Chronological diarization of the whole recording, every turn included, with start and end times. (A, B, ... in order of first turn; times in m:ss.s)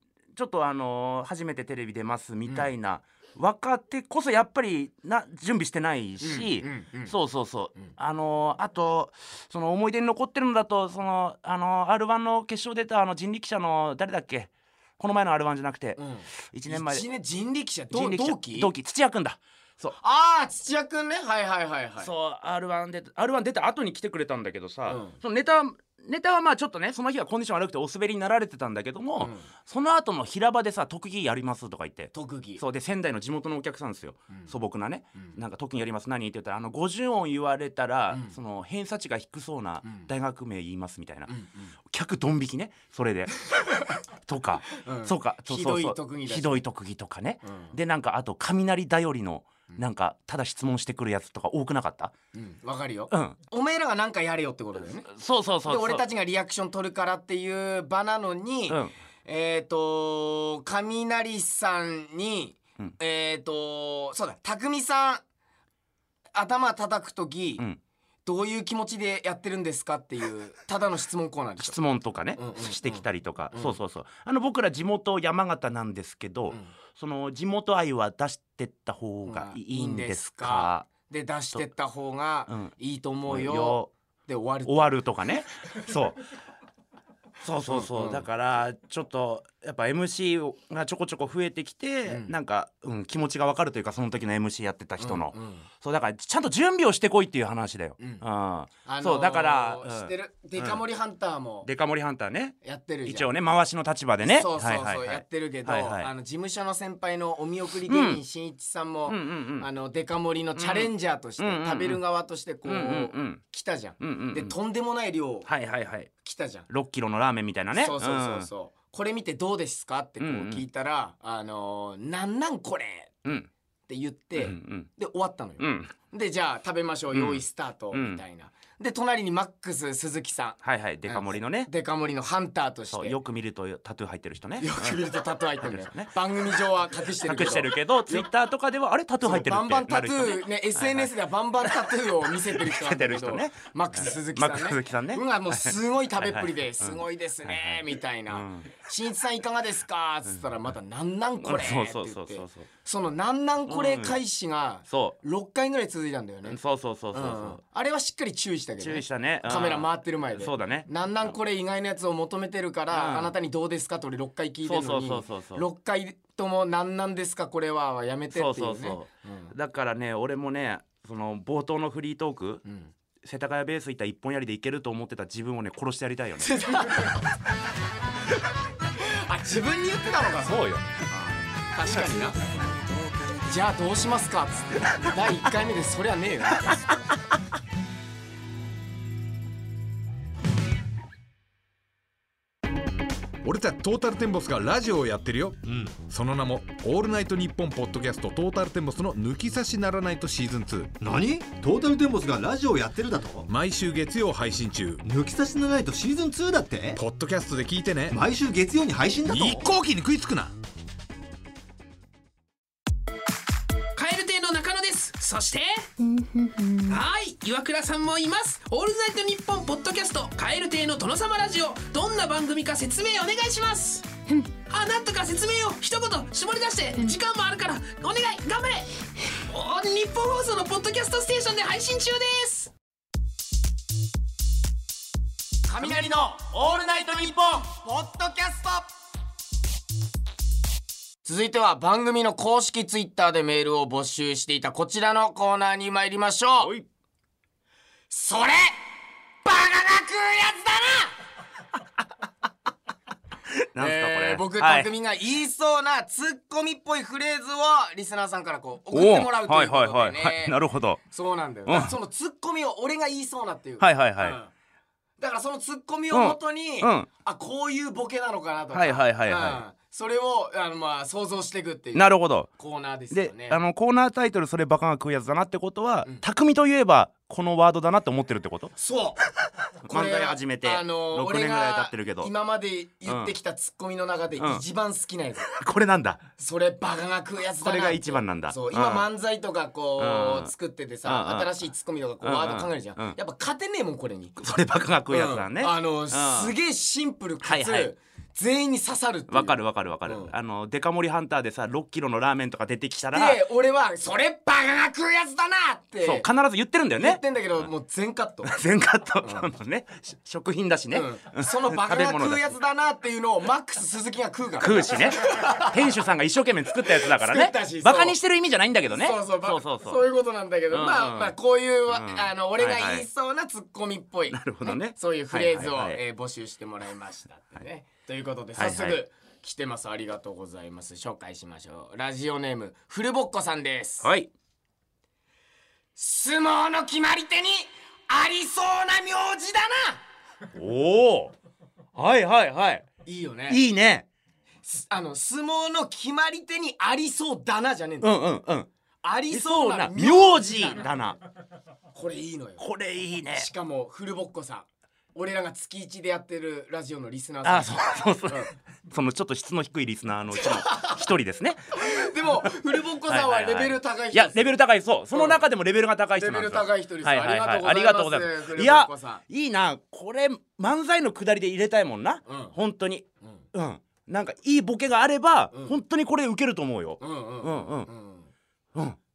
0:00.3-0:17.0 A
0:06.2-0:07.1 B
0:16.0-0:18.7 B
0:17.9-0:19.9 A
0:20.0-0:22.1 B
0:22.0-0:41.3 A
0:24.8-0:25.2 B
0:29.2-0:29.5 B
0:32.1-0:32.6 B
0:38.1-0:38.4 B
0:39.8-0:40.1 B
0:41.3-0:41.7 B
0:41.9-0:43.5 A
0:44.2-0:52.1 A
0:44.7-0:46.6 B
0:47.4-0:47.7 B
0:52.3-0:55.1 B
0:53.1-0:53.4 A
0:55.0-0:56.0 A
0:55.6-1:05.2 B
0:58.7-0:58.9 A
1:06.3-1:07.6 B
1:08.2-1:11.8 B
1:11.6-1:20.9 A
1:12.3-1:13.8 B
1:19.2-1:25.0 B
1:22.5-1:22.7 A
1:23.2-1:23.9 A
1:24.6-1:26.2 A
1:27.4-1:40.8 A
1:27.7-1:28.2 B
1:32.1-1:32.3 B
1:35.0-1:35.6 B
1:38.0-1:38.2 B
1:38.8-1:41.7 B
1:41.6-1:46.1 A
1:42.6-1:43.3 B
1:44.2-1:55.5 B
1:47.8-1:48.2 A
1:49.1-1:49.7 A
1:50.6-1:52.0 A
1:52.6-1:53.4 A
1:54.0-1:54.6 A
1:55.4-1:56.1 A
1:56.2-1:56.7 B
1:56.7-1:58.5 A
1:57.7-2:03.2 B
2:00.2-2:00.6 A
2:03.9-2:13.2 B
2:04.4-2:04.9 A
2:05.6-2:05.9 A
2:07.1-2:08.2 A
2:10.6-2:11.7 A
2:12.9-2:15.0 A
2:14.6-2:18.3 B
2:15.6-2:16.1 A
2:17.0-2:21.1 A
2:19.2-2:36.6 B
2:22.4-2:28.7 A
2:31.4-2:32.7 A
2:33.7-2:34.2 A
2:34.9-2:35.2 A
2:36.4-2:37.6 A
2:37.1-2:49.5 B
2:38.8-2:41.3 A
2:42.9-2:43.3 A
2:44.6-2:45.6 A
2:48.3-2:52.6 A
2:52.6-2:52.9 B
2:53.2-2:57.1 A
2:56.4-2:57.2 B
2:59.0-3:02.4 B
3:00.4-3:00.9 A
3:03.4-3:06.8 B
3:13.4-3:21.0 C
3:21.0-3:23.5 D
3:23.5-3:25.0 C
3:25.0-3:27.0 D
3:26.9-3:28.2 C
3:28.1-3:29.6 D
3:29.3-3:30.5 C
3:33.9-3:52.7 E
3:55.7-3:58.9 B
3:56.8-3:57.6 A
4:01.2-4:06.7 B
4:06.6-4:06.9 A
4:08.1-4:08.8 B
4:09.4-4:11.1 B
4:13.5-4:14.9 A
4:13.8-4:24.5 B
4:18.9-4:21.0 A
4:21.6-4:21.9 A
4:23.8-4:24.4 A
4:25.2-4:33.6 B
4:26.1-4:27.1 A
4:28.7-4:29.6 A
4:31.9-4:32.5 A
4:33.1-4:38.7 A
4:38.8-4:39.2 B
4:39.8-4:42.3 A
4:39.8-4:45.5 B
4:43.0-4:43.3 A
4:44.4-4:44.6 A
4:45.5-4:46.2 A
4:46.4-4:54.4 B
4:47.6-4:49.1 A
4:50.0-4:50.5 A
4:51.0-4:51.6 A
4:52.2-4:53.2 A
4:54.4-4:56.5 A
4:55.1-5:00.3 B
4:57.4-4:57.9 A
4:59.3-5:03.4 A
5:03.1-5:06.3 B
5:06.0-5:07.7 A
5:06.9-5:08.6 B
5:08.4-5:12.6 A
5:09.2-5:09.5 B
5:10.9-5:15.9 B
5:14.6-5:20.0 A
5:16.9-5:18.2 B
5:18.8-5:34.1 B
5:20.7-5:21.4 A
5:21.9-5:23.1 A
5:24.3-5:26.0 A
5:28.6-5:29.0 A
5:34.0-5:34.3 A
5:36.0-5:40.0 B
5:40.5-5:41.3 A
5:41.9-5:42.9 A
5:43.0-5:43.6 B
5:43.5-5:44.1 A
5:44.6-5:48.2 B
5:48.0-5:48.7 A
5:49.0-5:50.8 B
5:49.3-5:51.2 A
5:51.9-5:52.6 B
5:52.6-5:53.5 A
5:53.3-5:58.5 B
5:57.4-6:02.5 A
6:00.4-6:01.0 B
6:01.8-6:04.5 B
6:03.0-6:17.9 A
6:05.1-6:05.4 B
6:06.1-6:09.2 B
6:12.2-6:12.5 B
6:15.5-6:15.8 B
6:17.0-6:18.3 B